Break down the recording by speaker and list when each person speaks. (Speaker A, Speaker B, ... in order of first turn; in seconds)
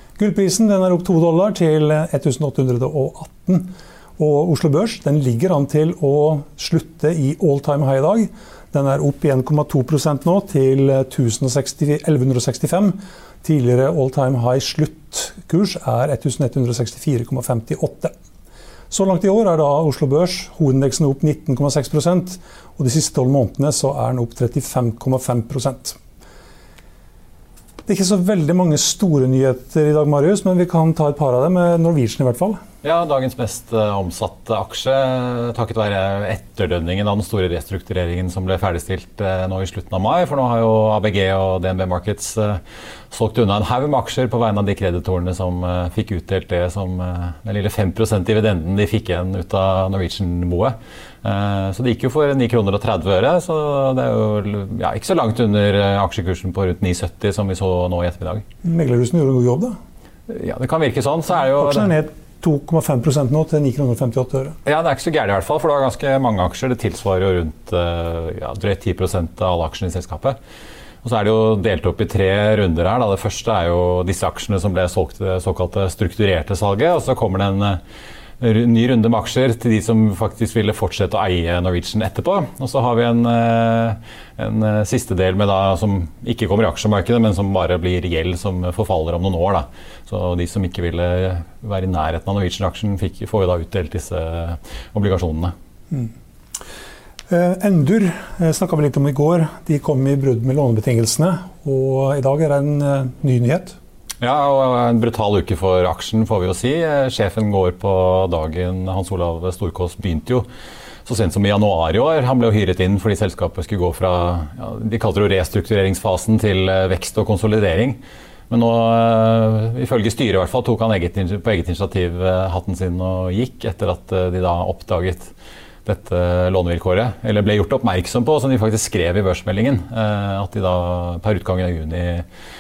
Speaker A: 0.2-18.1, 18.9-26.0, 27.9-32.6, 58.6-59.8, 61.4-64.6, 97.3-103.8
Speaker B: 32.8-58.4, 60.3-61.9, 64.7-70.4, 71.0-77.8, 78.4-95.5, 104.2-110.5, 111.1-118.0, 118.5-125.3, 125.8-132.2